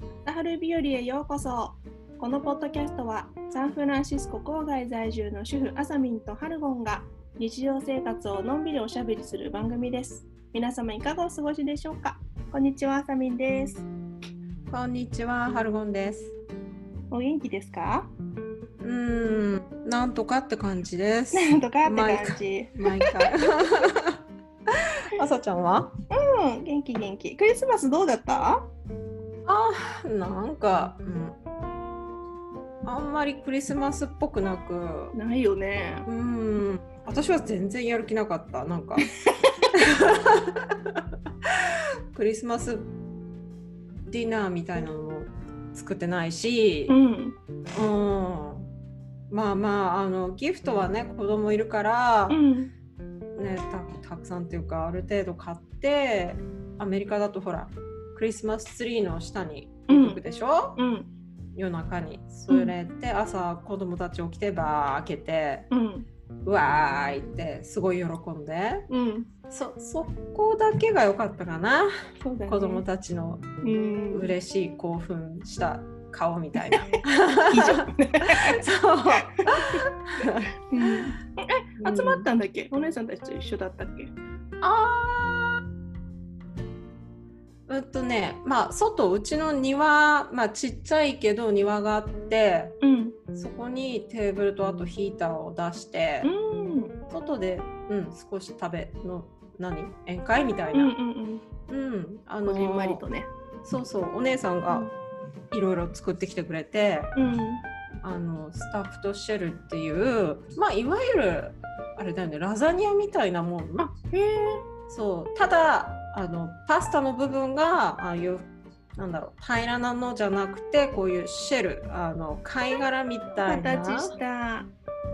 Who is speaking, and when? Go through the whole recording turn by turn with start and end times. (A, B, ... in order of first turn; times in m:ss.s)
0:00.2-0:13.9 A
0:14.7-0:16.3 B
0:17.1-0:18.1 A
0:18.8-0:25.9 B
0:21.3-0:23.2 A
0:26.1-0:28.7 A
0:29.4-0:31.4 B
0:32.8-0:35.1 B
0:35.1-0:36.1 A
0:36.0-0:39.0 B
0:39.7-0:42.9 B
0:44.0-0:47.0 B
0:46.9-0:47.4 A
0:47.7-0:48.7 B
0:49.3-0:52.4 B
0:52.3-0:52.7 A
0:53.4-1:00.8 B
0:59.9-1:00.2 A
1:00.8-1:01.1 A
1:01.5-1:05.7 B
1:05.7-1:06.1 A
1:06.4-1:08.9 B
1:08.9-1:09.3 A
1:09.5-1:11.9 B
1:12.2-1:12.8 A
1:12.5-1:13.5 B
1:13.6-1:14.3 A
1:14.1-1:21.0 B
1:16.6-1:19.9 A
1:20.7-1:24.1 A
1:21.8-1:22.3 B
1:24.6-1:25.6 B
1:27.7-1:32.8 B
1:32.8-1:33.2 A
1:33.3-1:36.3 B
1:36.2-1:36.9 A
1:37.1-1:40.9 B
1:40.7-1:41.4 A
1:41.7-1:43.0 B
1:42.4-1:43.3 A
1:43.6-1:44.9 B
1:45.5-1:47.2 B
1:47.2-1:47.6 A
1:48.0-1:53.9 B
1:53.8-1:54.6 A
1:54.9-2:04.2 B
2:03.4-2:04.7 A